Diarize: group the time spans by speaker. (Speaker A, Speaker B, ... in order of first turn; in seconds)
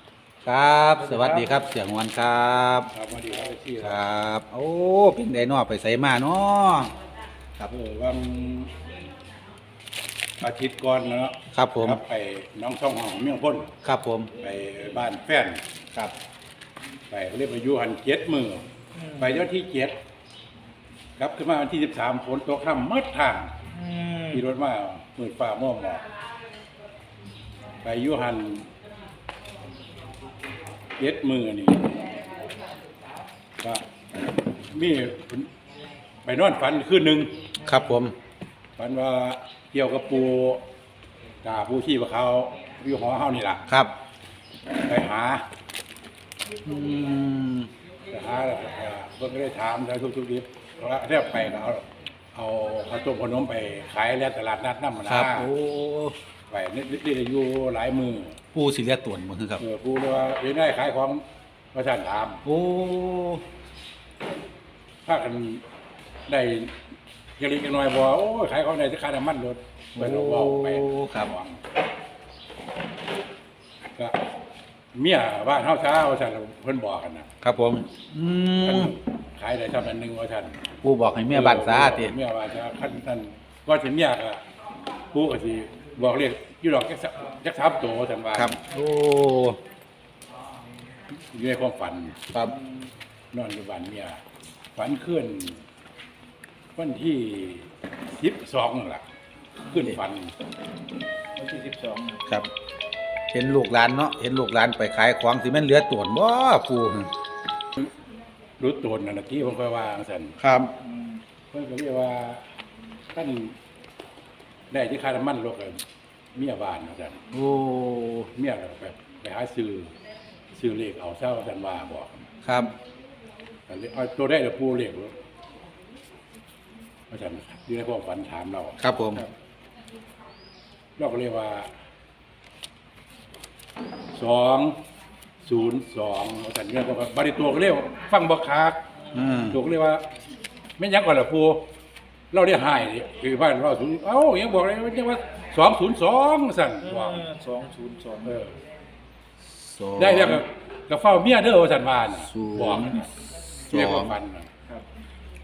Speaker A: 0.4-2.9, 3.8-6.9, 11.5-12.0, 13.8-14.3, 37.6-38.1, 43.7-43.9, 46.6-47.7, 55.0-56.2, 58.5-59.6, 62.4-63.4, 70.0-71.3, 77.4-78.9, 80.8-82.1, 88.3-89.6, 92.3-92.6, 103.3-107.1, 110.4-110.7, 117.3-118.3, 122.4-122.7, 128.8-129.2, 139.1-139.6, 149.4-150.4, 152.2-154.1
Speaker B: 1.0-1.6, 2.9-4.0, 7.7-8.7, 10.4-13.7, 14.4-15.6, 17.1-18.6, 19.1-19.9, 21.2-23.6, 24.3-26.0, 27.8-28.7, 31.0-31.9, 34.7-35.5, 36.2-37.3, 38.8-40.6, 41.4-43.6, 44.8-45.5, 48.1-55.5, 56.5-58.4, 59.6-62.4, 65.0-65.6, 66.3-66.7, 67.4-71.6, 73.9-74.2, 74.9-77.3, 78.6-80.6, 81.3-84.4, 85.1-88.6, 91.3-92.2, 93.3-94.2, 94.8-95.6, 96.8-99.0, 99.7-100.3, 108.6-110.3, 111.5-112.4, 113.1-113.5, 114.7-115.8, 116.3-117.2, 118.3-119.9, 120.5-122.2, 123.7-125.1, 127.1-128.8, 131.0-131.7, 134.1-134.8, 135.4-138.8, 139.4-140.0, 140.8-141.7, 142.3-147.2, 148.2-148.6, 150.0-153.1, 153.7-154.5
Speaker C: 19.0-19.3, 23.7-24.4, 101.4-102.2, 110.8-111.2, 146.8-148.3